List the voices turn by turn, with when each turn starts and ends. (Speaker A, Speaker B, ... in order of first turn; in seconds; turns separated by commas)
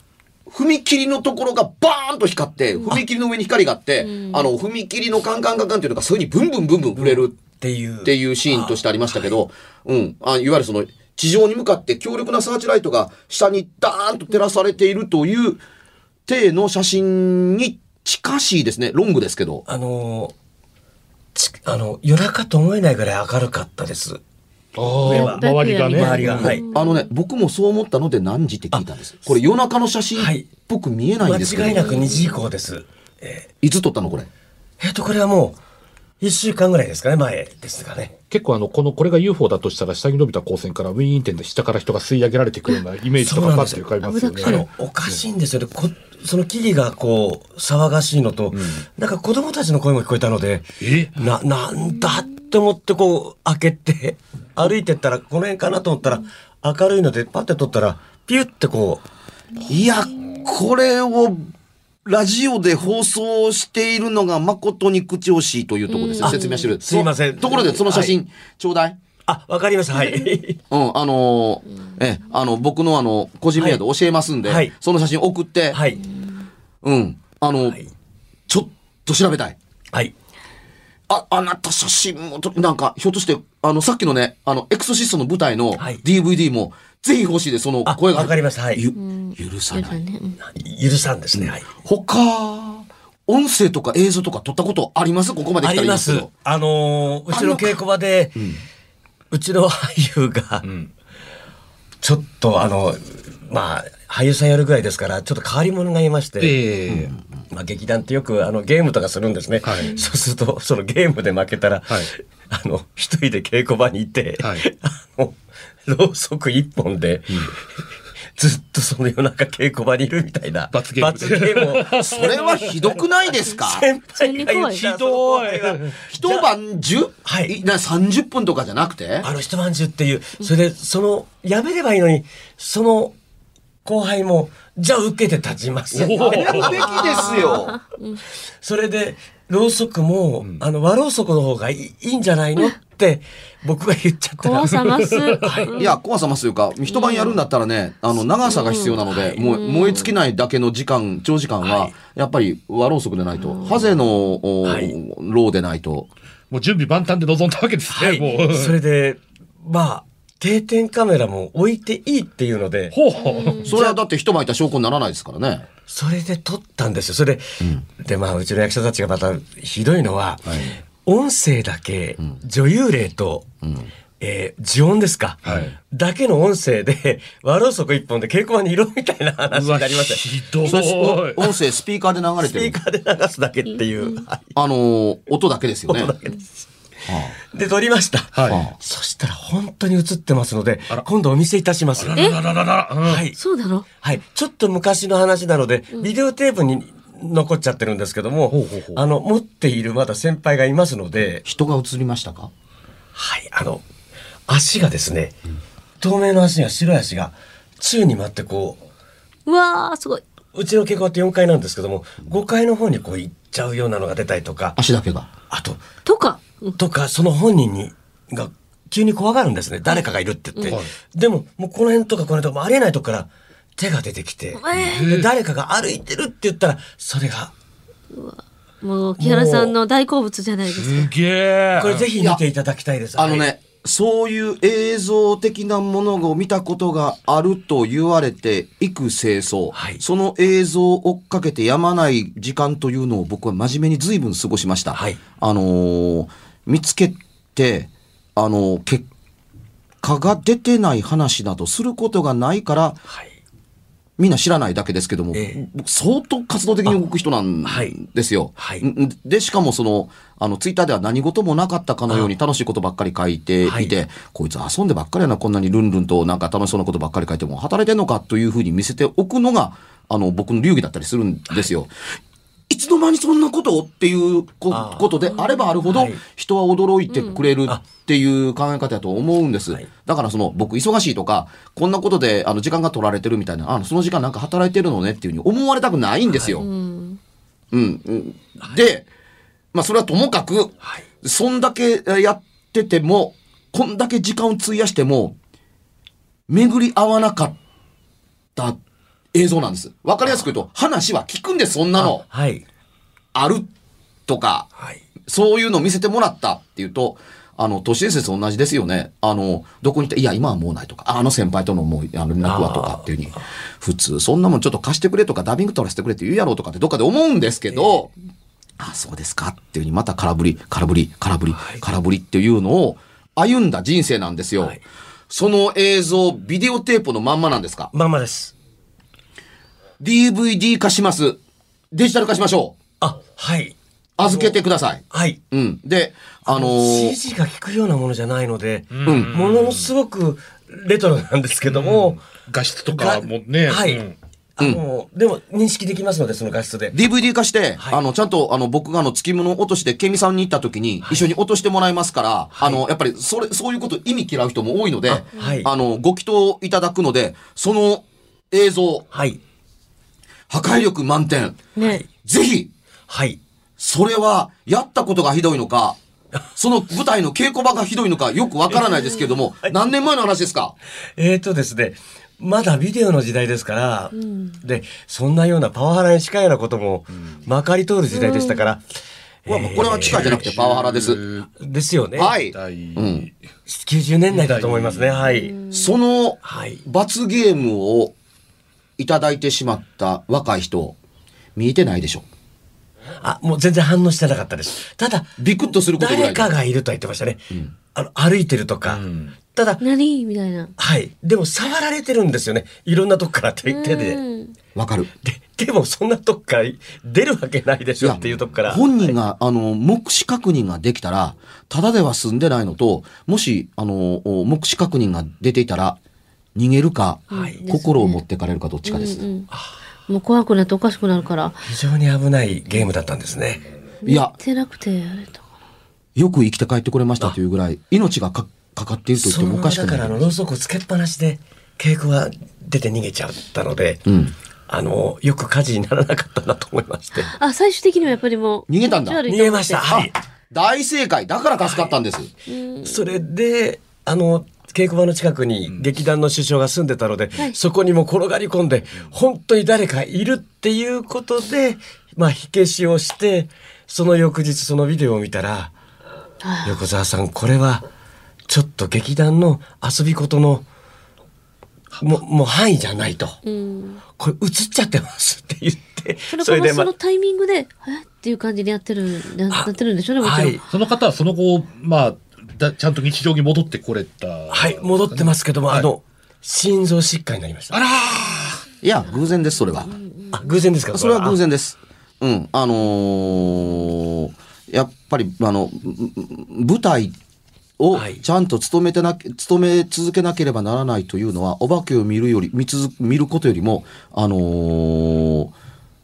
Speaker A: 0.5-7.3, Speaker B: 4.0-4.5, Speaker C: 6.9-9.3, Speaker A: 8.0-15.6, Speaker A: 16.3-19.6, Speaker C: 19.7-20.3, Speaker C: 21.3-24.2, Speaker D: 24.8-26.6, Speaker C: 25.0-26.6, Speaker B: 25.0-27.1, Speaker A: 26.4-32.0, Speaker C: 30.1-30.5, Speaker C: 31.2-33.5, Speaker B: 31.7-32.4, Speaker A: 33.6-34.3, Speaker C: 34.8-35.6, Speaker C: 36.2-38.1, Speaker D: 38.3-45.2, Speaker C: 43.2-43.9, Speaker B: 44.0-44.6, Speaker C: 44.4-59.0, Speaker D: 48.5-48.8, Speaker D: 50.8-51.2, Speaker A: 59.7-61.5, Speaker A: 62.0-69.0, Speaker B: 65.9-66.7, Speaker C: 66.2-68.2, Speaker C: 69.2-70.6, Speaker B: 70.0-70.2, Speaker A: 70.7-75.8, Speaker C: 74.4-74.7, Speaker C: 75.7-76.0, Speaker A: 76.8-77.8, Speaker A: 78.5-79.6, Speaker A: 81.1-90.0, Speaker C: 85.8-86.0, Speaker C: 87.8-88.8, Speaker B: 89.0-90.4, Speaker C: 90.4-91.7, Speaker A: 91.3-96.3, Speaker C: 95.6-98.4, Speaker A: 97.3-97.8, Speaker A: 98.3-98.6, Speaker C: 99.3-100.7, Speaker D: 100.6-100.9, Speaker C: 102.0-106.9, Speaker D: 106.4-107.1, Speaker A: 106.9-107.2, Speaker C: 107.5-117.7, Speaker D: 109.6-109.9, Speaker B: 109.8-110.1, Speaker D: 114.4-114.6, Speaker C: 118.3-122.0, Speaker D: 120.7-122.8, Speaker A: 122.0-123.8, Speaker C: 123.5-126.5, Speaker B: 124.2-124.8, Speaker D: 124.7-126.0, Speaker A: 126.1-129.3, Speaker C: 127.2-127.5, Speaker C: 129.2-133.1, Speaker C: 133.8-137.6, Speaker D: 135.9-136.9, Speaker A: 136.1-137.8, Speaker B: 136.9-138.2, Speaker C: 138.6-145.8, Speaker B: 144.4-145.9, Speaker D: 145.1-145.4, Speaker A: 145.8-156.1, Speaker B: 146.9-147.4, Speaker B: 148.4-150.1, Speaker C: 149.1-149.4, Speaker C: 151.6-151.9, Speaker B: 153.4-153.8, Speaker C: 154.6-154.9, Speaker D: 156.5-158.8, Speaker C: 157.9-162.9, Speaker D: 162.9-163.7, Speaker B: 163.2-163.7, Speaker A: 163.6-165.7, Speaker C: 163.7-164.0, Speaker C: 165.9-173.5, Speaker A: 173.6-173.9, Speaker C: 174.2-180.2, Speaker D: 175.4-175.7, Speaker D: 179.5-181.5, Speaker A: 180.6-182.8, Speaker C: 182.4-184.5, Speaker A: 184.5-186.1, Speaker C: 185.9-186.4, Speaker A: 187.1-187.3, Speaker C: 187.5-192.3, Speaker D: 188.3-188.6, Speaker A: 188.5-188.7, Speaker D: 192.0-193.2, Speaker C: 193.0-193.4, Speaker B: 193.4-193.8, Speaker C: 194.0-201.4, Speaker D: 198.5-199.0, Speaker A: 201.4-202.5, Speaker C: 203.1-203.8, Speaker C: 204.5-205.3, Speaker C: 206.0-208.8, Speaker B: 209.4-210.2, Speaker C: 210.5-214.8, Speaker A: 214.8-215.3, Speaker C: 215.5-215.8, Speaker B: 216.0-216.8, Speaker C: 216.8-227.5, Speaker D: 220.6-220.9, Speaker B: 224.6-225.0, Speaker D: 224.7-225.3, Speaker B: 228.1-231.1, Speaker C: 229.2-229.7, Speaker D: 230.8-232.1, Speaker C: 231.8-233.5, Speaker A: 233.2-249.1, Speaker C: 239.7-240.0, Speaker C: 244.9-245.2, Speaker A: 250.0-253.0, Speaker A: 254.2-271.9, Speaker C: 255.3-255.6, Speaker C: 257.6-258.0, Speaker C: 258.6-258.9, Speaker C: 263.6-263.9, Speaker A: 272.7-286.7, Speaker C: 274.7-275.1, Speaker B: 275.3-275.7, Speaker C: 275.8-276.2, Speaker B: 277.1-277.4, Speaker C: 286.3-286.6, Speaker B: 286.6-287.2, Speaker A: 287.7-289.1, Speaker A: 289.7-295.4, Speaker A: 296.5-297.6, Speaker A: 299.3-302.2, Speaker C: 302.0-302.6, Speaker A: 303.3-303.7, Speaker A: 304.3-304.7, Speaker A: 305.3-318.1, Speaker C: 312.4-313.1, Speaker A: 318.8-324.8, Speaker C: 321.6-321.8, Speaker A: 325.3-327.9, Speaker C: 327.9-328.5, Speaker A: 330.0-331.4, Speaker A: 331.9-332.8, Speaker C: 333.0-334.6, Speaker A: 334.2-337.2, Speaker C: 335.1-335.4, Speaker C: 336.4-342.2, Speaker D: 338.9-339.9, Speaker A: 339.1-339.3, Speaker D: 341.6-344.1, Speaker C: 342.9-344.1, Speaker C: 344.6-347.0, Speaker A: 346.9-359.1, Speaker C: 351.0-351.3, Speaker C: 352.5-352.8, Speaker C: 355.1-355.7, Speaker B: 355.4-355.6, Speaker C: 359.1-359.4, Speaker A: 360.5-362.7, Speaker B: 361.8-362.0, Speaker C: 361.8-362.0, Speaker C: 363.1-363.4, Speaker A: 363.8-366.0, Speaker A: 366.6-370.7, Speaker B: 369.0-369.2, Speaker C: 371.2-378.8, Speaker B: 374.1-374.6, Speaker B: 378.1-378.7, Speaker C: 379.4-380.4, Speaker A: 379.5-381.2, Speaker D: 380.0-381.5, Speaker C: 381.6-382.3, Speaker A: 382.1-383.3, Speaker D: 382.5-383.3, Speaker C: 383.7-385.6, Speaker D: 384.3-385.2, Speaker B: 385.2-385.9, Speaker A: 385.7-388.1, Speaker C: 386.4-386.8, Speaker A: 389.0-390.9, Speaker A: 391.6-392.2, Speaker C: 393.2-395.4, Speaker A: 395.4-396.5, Speaker C: 395.9-399.0, Speaker D: 398.9-399.3, Speaker C: 399.5-399.8, Speaker B: 399.8-400.7, Speaker C: 400.8-404.2, Speaker B: 403.6-404.5, Speaker A: 404.8-405.1, Speaker C: 405.2-409.1, Speaker A: 408.0-416.0, Speaker A: 416.6-419.2, Speaker C: 417.3-417.6, Speaker B: 417.3-418.2, Speaker B: 418.8-419.5, Speaker B: 420.1-421.6, Speaker C: 421.6-423.6, Speaker B: 424.0-425.4, Speaker A: 424.0-424.3, Speaker A: 426.1-430.3, Speaker C: 429.1-434.0, Speaker A: 434.1-434.3, Speaker C: 434.7-437.3, Speaker B: 437.2-439.9, Speaker A: 438.7-439.2, Speaker C: 439.3-440.1, Speaker A: 439.9-442.3, Speaker B: 442.5-443.1, Speaker C: 442.8-455.7, Speaker B: 456.4-456.8, Speaker C: 456.6-457.8, Speaker C: 458.5-460.6, Speaker C: 462.0-463.4, Speaker B: 463.4-464.0, Speaker C: 464.2-466.9, Speaker B: 466.3-470.6, Speaker C: 470.2-470.6, Speaker D: 470.7-475.9, Speaker C: 474.5-477.8, Speaker D: 477.7-478.6, Speaker A: 478.8-480.0, Speaker C: 480.3-481.4, Speaker A: 480.9-487.1, Speaker A: 487.8-495.5, Speaker C: 487.9-488.2